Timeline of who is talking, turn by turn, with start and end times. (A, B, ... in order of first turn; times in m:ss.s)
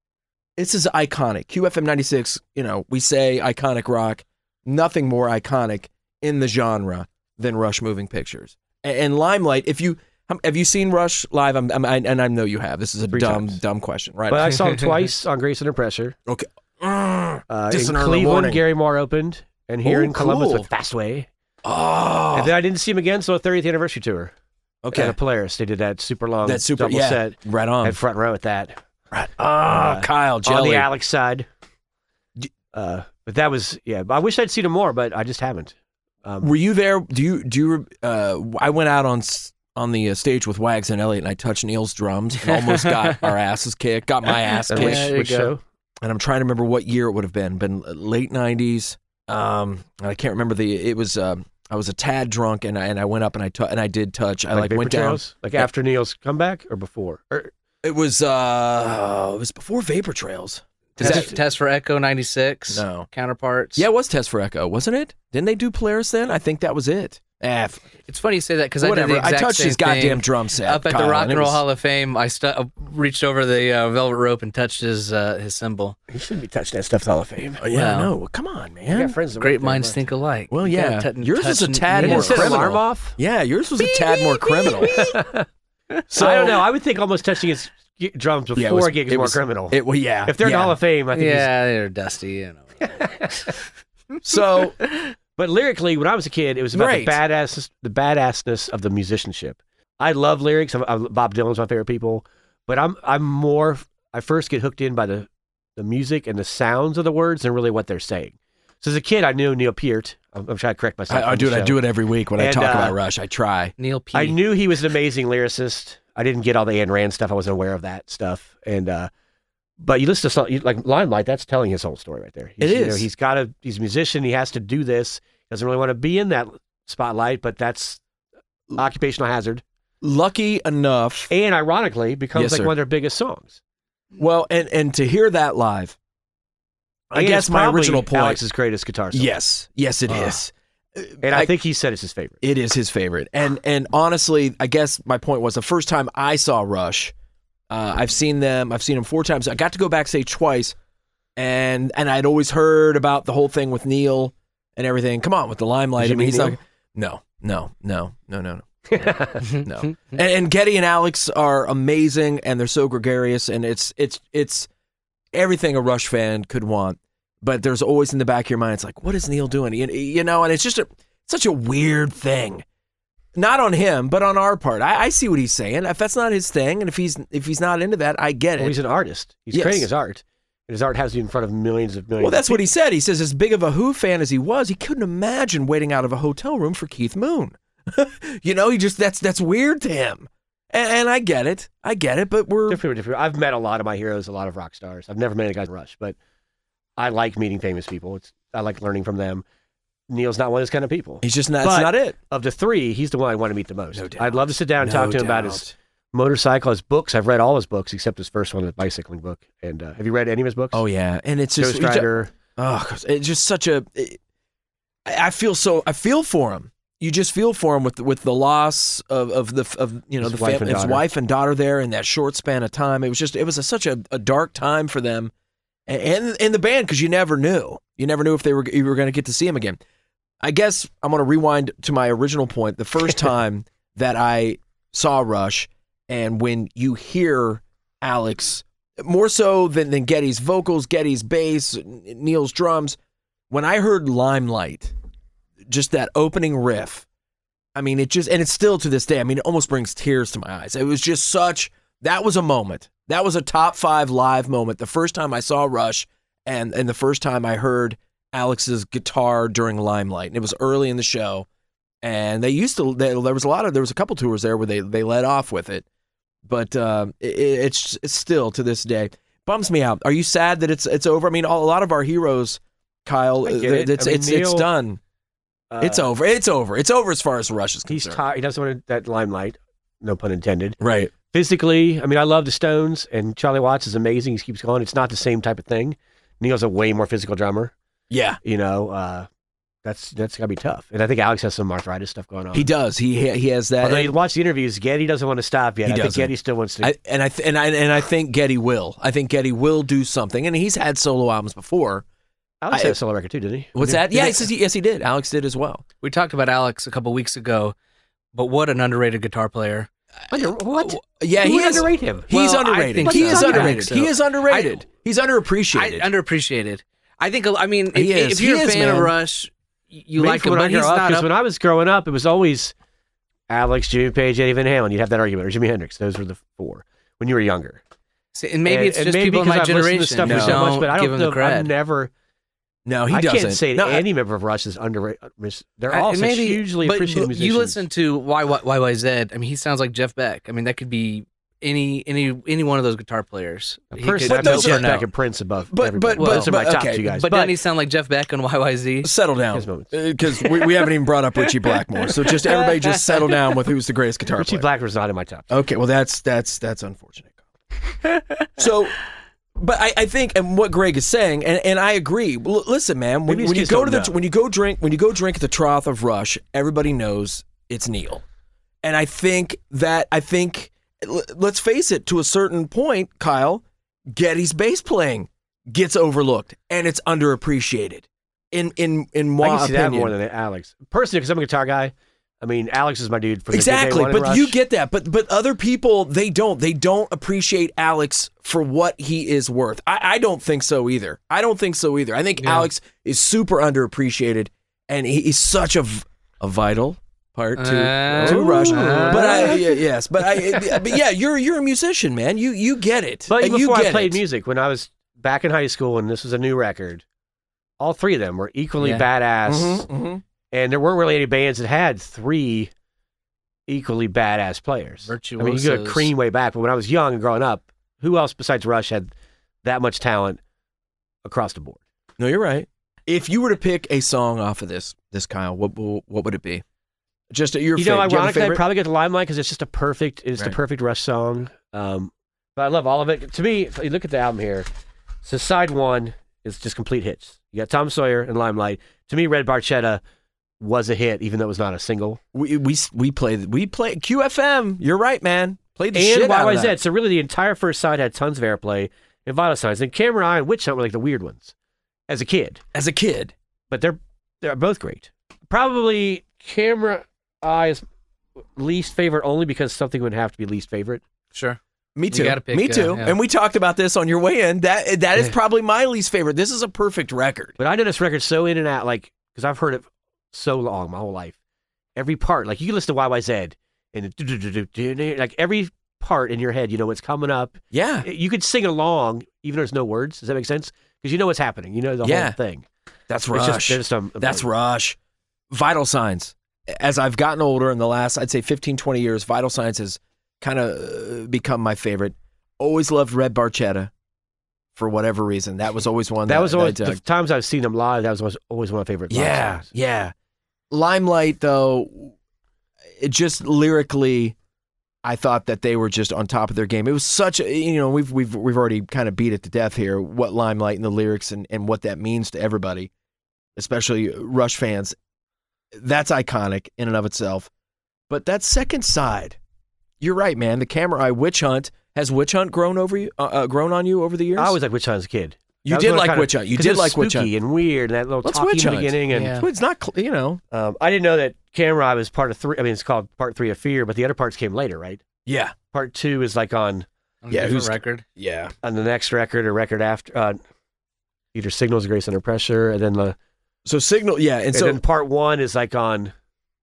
0:00.6-0:14.7 A
0:13.1-0:13.6 B
0:14.3-0:16.2 B
0:16.3-0:18.6 A
0:17.5-0:21.3 B
0:19.8-0:20.7 A
0:21.6-0:22.5 A
0:22.3-0:24.3 B
0:24.8-0:25.2 A
0:24.9-0:28.8 B
0:26.4-0:28.0 A
0:29.1-0:30.9 A
0:29.7-0:31.5 B
0:32.7-0:36.5 B
0:36.4-0:45.1 A
0:42.5-0:43.0 C
0:44.6-0:45.5 C
0:44.7-0:45.6 B
0:46.0-0:55.7 A
0:54.5-0:57.5 B
0:57.8-1:01.4 A
1:01.0-1:03.9 C
1:01.0-1:01.3 B
1:02.7-1:03.1 A
1:03.8-1:07.8 A
1:08.1-1:16.0 C
1:08.8-1:11.6 A
1:16.1-1:17.6 B
1:17.6-1:19.2 A
1:17.7-1:18.1 C
1:18.9-1:20.0 B
1:19.4-1:22.7 C
1:20.5-1:25.1 A
1:22.0-1:23.2 B
1:24.3-1:25.5 B
1:26.1-1:26.6 A
1:26.2-1:31.5 B
1:28.6-1:30.8 A
1:31.2-1:33.5 C
1:32.8-1:33.5 B
1:34.2-1:34.8 A
1:34.8-1:35.1 C
1:35.4-1:51.8 B
1:36.7-1:37.2 A
1:51.1-1:53.7 A
1:52.4-1:53.0 B
1:53.8-1:54.4 C
1:54.1-1:59.1 B
1:59.8-2:08.0 B
2:02.6-2:03.1 A
2:08.8-2:09.6 B
2:10.0-2:11.3 A
2:11.3-2:13.6 B
2:12.4-2:12.7 A
2:14.2-2:16.0 A
2:17.1-2:18.4 A
2:17.1-2:19.3 B
2:19.1-2:21.5 A
2:20.1-2:20.4 B
2:21.2-2:22.4 B
2:22.4-2:27.1 A
2:27.7-2:30.8 A
2:31.4-2:44.7 A
2:36.0-2:36.6 B
2:38.9-2:39.5 B
2:45.3-2:52.6 A
2:53.4-2:58.8 A
2:58.6-3:02.7 B
2:59.5-2:59.9 A
3:02.2-3:12.8 A
3:12.7-3:16.2 B
3:17.0-3:19.4 B
3:20.1-3:30.8 B
3:21.2-3:22.2 A
3:23.9-3:25.7 A
3:30.7-3:34.2 A
3:31.6-3:32.3 B
3:35.1-3:45.3 A
3:40.2-3:41.0 B
3:45.9-3:49.8 A
3:50.4-4:03.0 A
4:03.5-4:04.9 A
4:05.7-4:07.1 A
4:07.8-4:21.5 A
4:22.0-4:25.8 A
4:26.5-4:35.0 A
4:33.4-4:34.7 B
4:35.7-4:36.1 B
4:35.8-4:38.2 A
4:37.9-4:40.8 B
4:40.8-4:41.1 A
4:41.3-4:47.7 B
4:48.1-4:48.4 A
4:48.4-4:49.3 B
4:49.8-4:52.7 B
4:52.5-4:54.1 A
4:53.8-4:56.9 B
4:55.9-5:02.0 A
5:02.6-5:04.4 B
5:02.7-5:03.0 A
5:03.7-5:05.8 A
5:06.0-5:07.8 C
5:08.3-5:09.9 C
5:10.3-5:12.3 B
5:10.8-5:16.1 A
5:12.3-5:14.8 C
5:13.0-5:13.8 B
5:15.7-5:21.3 C
5:17.9-5:19.1 A
5:20.2-5:22.7 B
5:23.5-5:27.8 B
5:28.3-5:31.7 C
5:28.6-5:32.1 B
5:30.2-5:30.7 A
5:32.9-5:34.0 A
5:33.1-5:37.8 B
5:35.9-5:45.1 C
5:43.9-5:47.6 B
5:44.3-5:45.0 A
5:45.7-5:47.1 A
5:46.2-5:46.6 C
5:47.1-5:49.1 C
5:49.0-5:54.7 A
5:49.5-5:49.9 B
5:52.0-5:53.4 C
5:54.4-5:55.5 B
5:55.5-5:57.4 A
5:58.6-5:59.0 A
5:59.6-6:08.2 A
6:03.3-6:04.1 B
6:08.8-6:20.1 A
6:19.4-6:24.6 B
6:23.5-6:44.2 A
6:32.4-6:32.7 C
6:37.6-6:39.6 C
6:38.2-6:39.6 B
6:43.3-6:47.0 B
6:47.8-6:49.9 B
6:49.5-6:50.2 A
6:50.5-6:52.7 B
6:53.7-6:59.1 B
6:55.1-6:56.1 C
6:59.6-7:00.4 B
7:01.2-7:01.8 B
7:02.2-7:06.6 A
7:07.3-7:08.6 A
7:07.8-7:14.7 B
7:15.2-7:20.0 B
7:20.6-7:22.2 B
7:22.3-7:26.8 A
7:25.9-7:31.5 B
7:32.1-7:32.6 B
7:32.7-7:33.3 A
7:33.7-7:37.8 B
7:38.6-7:41.0 B
7:42.0-7:47.6 A
7:42.1-7:43.2 C
7:47.6-7:51.4 B
7:52.0-8:02.6 B
7:57.7-7:58.1 A
8:02.0-8:02.4 A
8:03.1-8:05.0 A
8:03.3-8:04.5 B
8:05.5-8:13.9 A
8:14.8-8:17.0 A
8:16.3-8:19.7 B
8:19.1-8:20.1 A
8:20.7-8:22.2 A
8:23.0-8:24.4 A
8:25.0-8:32.9 A
8:33.6-8:35.0 A
8:35.7-8:37.5 A
8:38.1-8:39.4 A
8:40.0-8:44.6 A
8:44.4-8:49.4 B
8:45.6-8:47.3 A
8:48.2-8:50.4 A
8:49.1-8:49.4 C
8:50.5-8:55.0 B
8:55.3-8:55.6 A
8:55.7-8:56.9 B
8:57.2-8:58.0 C
8:57.3-8:58.5 A
8:58.6-9:00.4 B
9:01.3-9:03.2 B
9:03.6-9:04.8 A
9:04.5-9:06.1 B